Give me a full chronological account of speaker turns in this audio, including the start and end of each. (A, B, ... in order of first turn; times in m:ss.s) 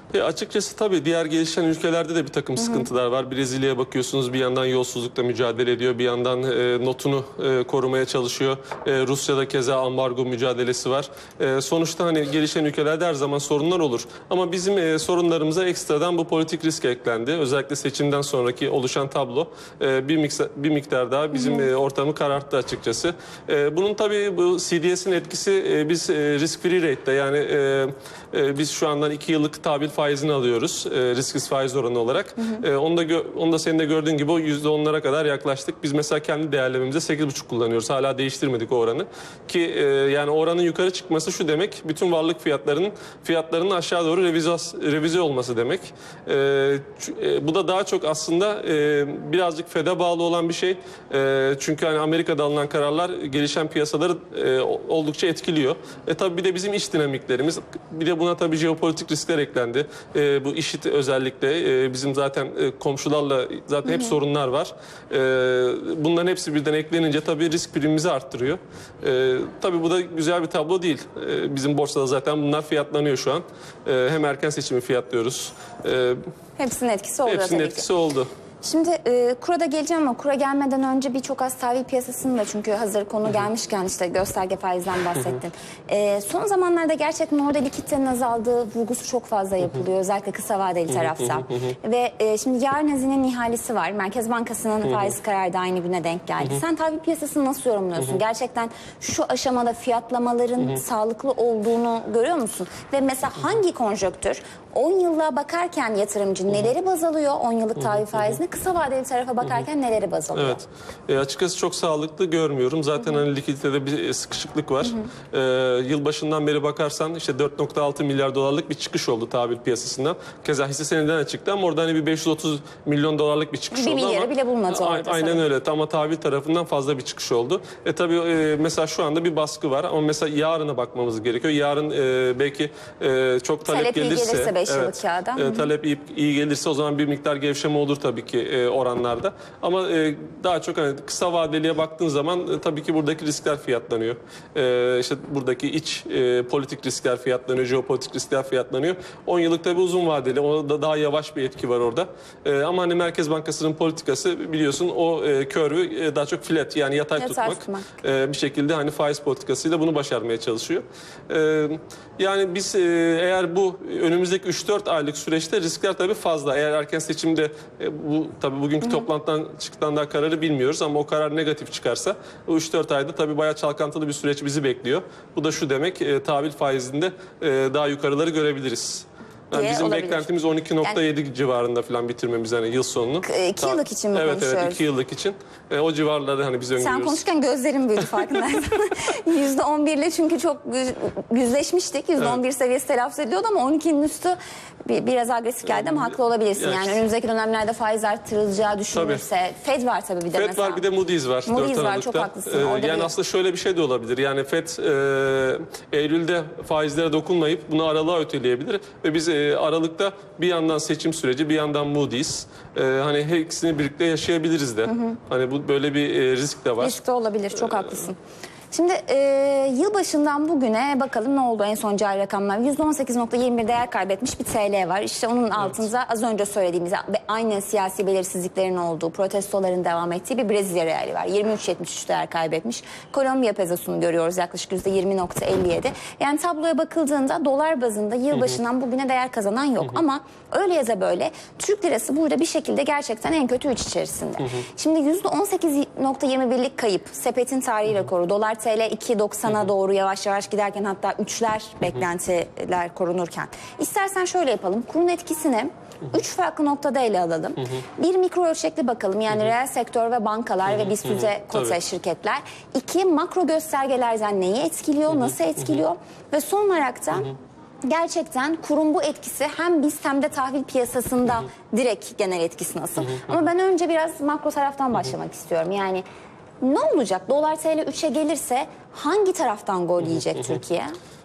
0:00.1-1:16.2 A
0:02.6-0:02.9 B
0:21.3-0:21.7 B
1:03.9-1:04.1 B
1:16.6-1:17.8 B
1:17.2-1:18.3 A
1:18.6-1:50.6 B
1:50.3-3:07.2 A
2:03.7-2:05.4 B
2:13.6-2:15.7 B
2:37.2-2:37.9 B
2:59.5-3:00.3 B
3:03.2-3:04.8 B
3:06.8-3:20.8 B
3:15.7-3:17.0 A
3:18.9-3:19.2 A
3:20.3-3:37.0 A
3:21.5-3:23.1 B
3:34.9-3:35.2 B
3:36.8-3:38.2 B
3:38.7-4:36.0 B
4:20.7-4:21.8 A
4:36.6-4:41.0 B
4:40.0-4:40.3 A